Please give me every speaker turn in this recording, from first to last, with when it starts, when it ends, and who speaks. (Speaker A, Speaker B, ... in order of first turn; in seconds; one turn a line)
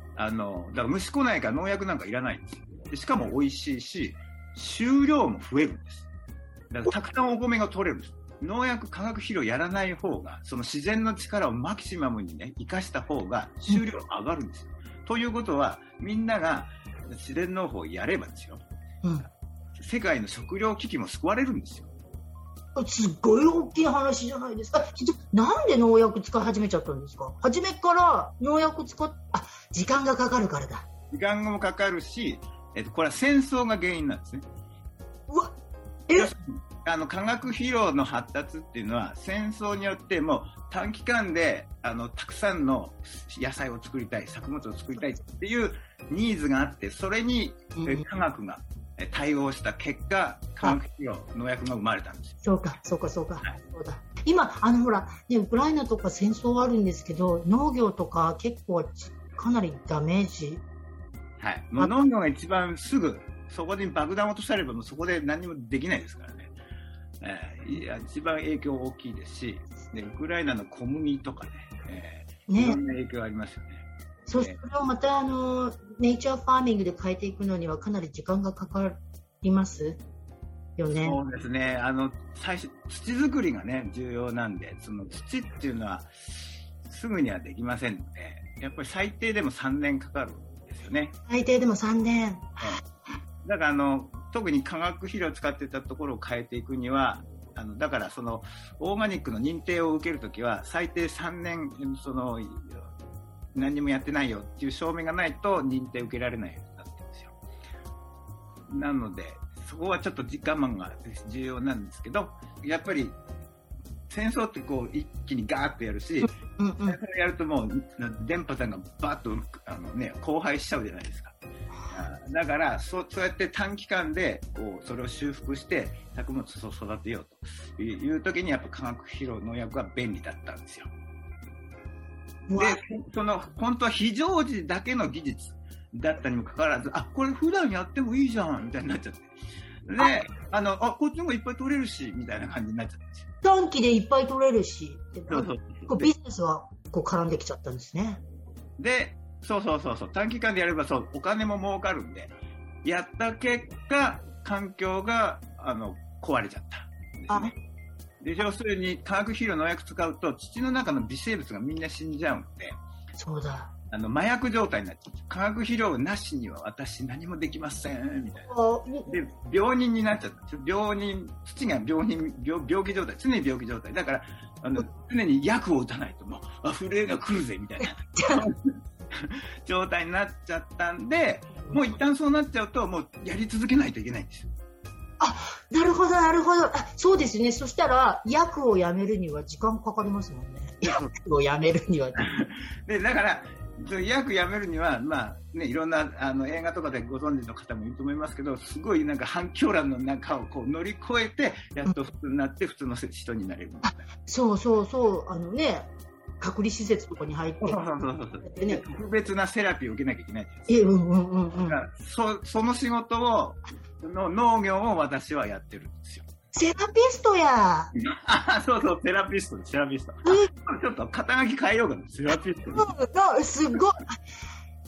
Speaker A: 0.2-6.1
Speaker A: 6.7-18.6
Speaker B: 19.0-19.3
Speaker A: 19.8-21.9
Speaker B: 22.8-30.9
Speaker A: 31.1-34.5
Speaker B: 35.3-35.6
Speaker A: 36.1-52.4
Speaker B: 47.8-48.0
Speaker B: 52.4-60.6
Speaker A: 61.4-66.5
Speaker A: 67.2-73.8
Speaker B: 72.5-72.8
Speaker B: 74.3-80.0
Speaker B: 80.8-81.2
Speaker A: 81.0-91.1
Speaker B: 91.3-92.9
Speaker A: 93.4-102.9
Speaker A: 103.5-107.3
Speaker A: 108.7-113.2
Speaker A: 114.1-116.3
Speaker B: 116.2-117.0
Speaker A: 116.9-121.4
Speaker A: 121.9-130.9
Speaker B: 132.5-132.8
Speaker A: 132.5-139.3
Speaker A: 139.9-143.3
Speaker B: 143.4-148.2
Speaker A: 145.3-146.1
Speaker A: 148.8-152.3
Speaker A: 152.8-157.6
Speaker A: 158.2-162.8
Speaker B: 163.2-163.7
Speaker A: 163.9-168.5
Speaker B: 168.5-169.2
Speaker A: 169.1-184.5
Speaker B: 178.2-178.5
Speaker B: 185.2-192.2
Speaker A: 190.8-191.1
Speaker A: 192.2-204.1
Speaker B: 203.8-207.8
Speaker A: 207.6-210.7
Speaker B: 208.4-208.8
Speaker B: 210.7-211.8
Speaker A: 211.7-216.3
Speaker B: 216.5-217.9
Speaker A: 217.9-222.9
Speaker B: 220.2-220.5
Speaker B: 222.7-224.2